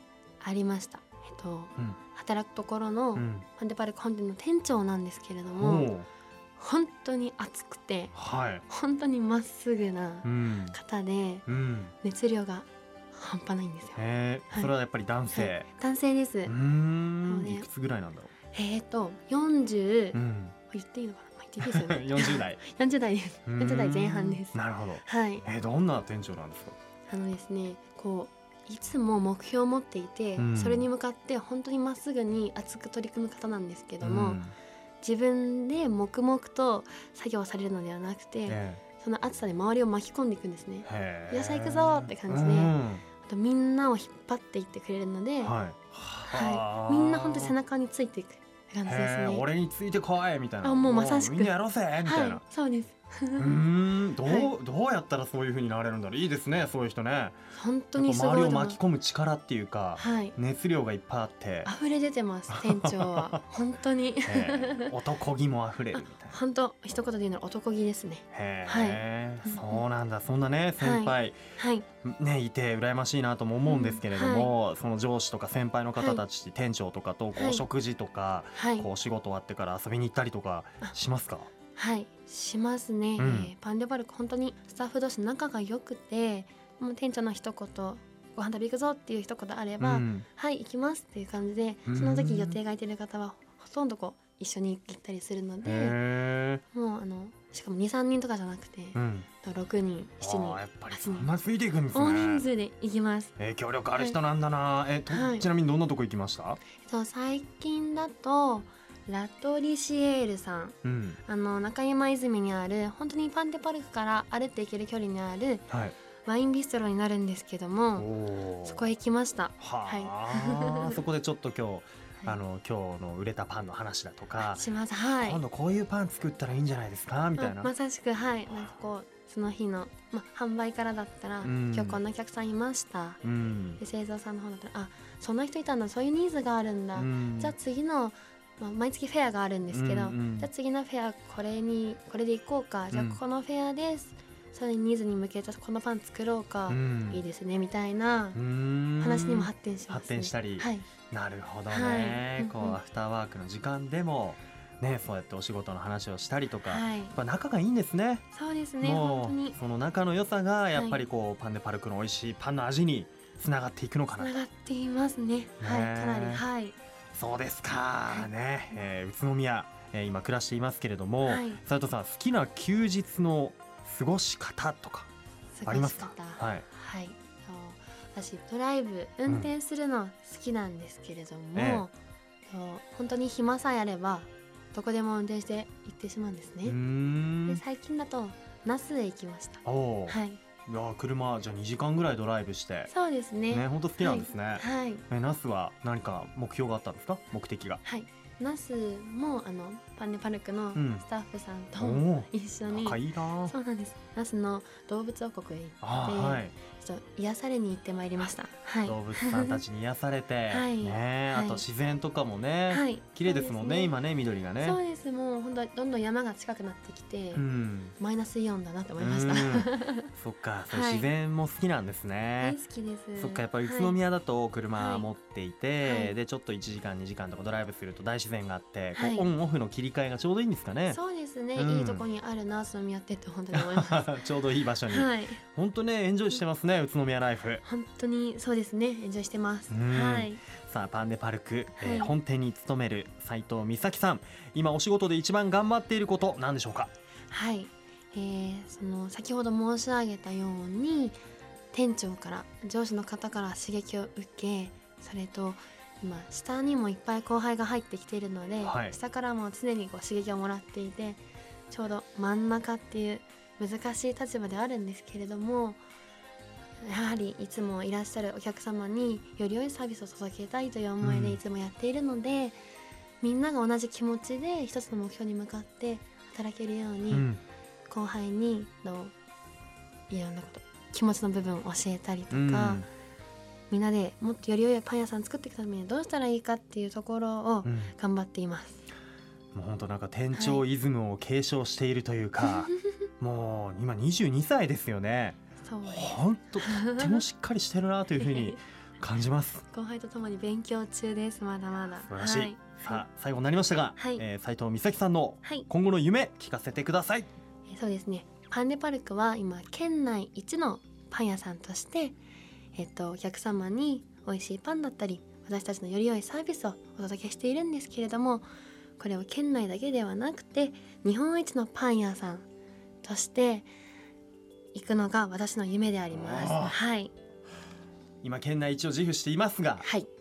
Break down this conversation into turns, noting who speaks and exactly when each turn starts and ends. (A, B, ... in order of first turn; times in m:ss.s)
0:00.4-0:05.9 A
0:03.1-0:03.4 B
0:05.6-0:06.1 B
0:06.6-0:08.2 A
0:08.1-0:08.6 B
0:08.7-0:11.5 A
0:10.2-0:10.8 B
0:11.5-0:11.9 B
0:12.0-0:14.7 A
0:13.9-0:15.7 B
0:15.3-0:16.5 A
0:16.4-0:18.3 B
0:17.2-0:17.7 A
0:18.5-0:20.2 A
0:20.1-0:20.6 B
0:20.7-0:25.4 A
0:21.6-0:22.6 B
0:23.5-0:26.7 B
0:27.1-0:34.4 A
0:30.4-0:30.9 B
0:34.0-0:34.5 B
0:35.0-0:45.6 A
0:38.5-0:38.8 B
0:40.8-0:43.0 B
0:45.4-0:47.5 B
0:46.3-0:49.4 A
0:48.8-0:52.4 B
0:50.6-0:53.5 A
0:53.4-0:57.4 B
0:54.2-0:54.5 A
0:57.5-0:58.8 A
0:58.0-1:01.7 B
1:00.0-1:00.4 A
1:01.6-1:04.9 A
1:02.5-1:03.4 B
1:04.2-1:06.4 B
1:05.9-1:09.8 A
1:08.3-1:11.4 B
1:10.8-1:11.8 A
1:12.0-1:21.5 B
1:13.6-1:14.5 A
1:16.0-1:16.2 A
1:17.4-1:17.6 A
1:18.5-1:18.9 A
1:21.8-1:36.0 A
1:23.2-1:23.5 B
1:29.8-1:30.2 B
1:31.9-1:32.6 B
1:35.6-1:36.6 B
1:36.7-1:41.3 A
1:38.9-1:39.3 B
1:40.2-1:42.4 B
1:41.9-1:43.4 A
1:43.4-1:46.6 B
1:45.1-1:45.5 A
1:46.8-1:55.7 A
1:50.8-1:51.2 B
1:55.7-1:55.9 B
1:56.2-1:58.1 A
1:58.0-1:58.9 B
1:58.6-2:01.0 A
1:59.6-2:04.6 B
2:04.4-2:05.4 A
2:05.2-2:07.7 B
2:07.4-2:13.2 A
2:11.4-2:12.0 B
2:13.2-2:13.8 B
2:13.8-2:28.4 A
2:16.9-2:17.5 B
2:19.7-2:20.5 B
2:22.9-2:23.2 B
2:26.7-2:27.2 B
2:28.3-2:38.2 B
2:29.0-2:30.9 A
2:31.7-2:32.8 A
2:36.6-2:37.2 A
2:38.3-2:39.6 A
2:38.8-2:44.4 B
2:40.7-2:41.0 A
2:44.2-2:46.8 A
2:45.6-2:46.4 B
2:47.1-2:55.1 B
2:51.2-2:51.6 A
2:55.6-3:01.9 A
2:55.6-2:56.6 B
3:01.5-3:01.9 B
3:02.5-3:06.8 A
3:06.6-3:07.6 B
3:07.4-3:10.4 A
3:09.6-3:12.9 B
3:12.9-3:15.0 A
3:13.5-3:17.8 B
3:17.8-3:29.6 A
3:20.7-3:21.0 B
3:21.8-3:23.5 B
3:25.8-3:26.6 B
3:28.8-3:34.8 B
3:30.5-3:31.6 A
3:32.7-3:34.0 A
3:34.6-3:37.4 A
3:37.3-3:38.0 B
3:38.0-3:40.1 A
3:39.0-3:42.6 B
3:40.7-3:41.1 A
3:42.4-3:44.0 A
3:43.1-3:51.0 B
3:44.8-3:45.1 A
3:45.8-3:46.1 A
3:49.0-3:49.3 A
3:50.9-3:54.2 A
3:51.5-3:52.0 B
3:53.5-3:57.6 B
3:54.9-3:55.4 A
3:57.6-4:00.4 A
3:59.7-4:06.9 B
4:01.8-4:02.1 A
4:07.3-4:11.2 A
4:11.7-4:25.8 A
4:18.6-4:19.0 B
4:26.8-4:32.6 A
4:31.0-4:31.4 B
4:33.2-4:37.3 A
4:37.1-4:37.4 B
4:37.9-4:39.1 A
4:40.1-4:42.8 A
4:42.3-4:42.9 B
4:43.7-4:48.8 A
4:47.6-4:47.9 B
4:49.5-4:59.6 B
4:50.3-4:50.6 A
4:52.4-4:52.8 A
4:55.6-4:57.2 A
4:58.2-4:58.6 A
4:59.7-5:03.0 A
5:02.0-5:07.3 B
5:04.0-5:04.2 A
5:07.7-5:12.2 A
5:12.7-5:18.4 A
5:19.0-5:22.4 A
5:23.0-5:23.7 A
5:24.7-5:27.1 A
5:26.1-5:26.8 B
5:28.2-5:29.9 B
5:29.8-5:30.1 A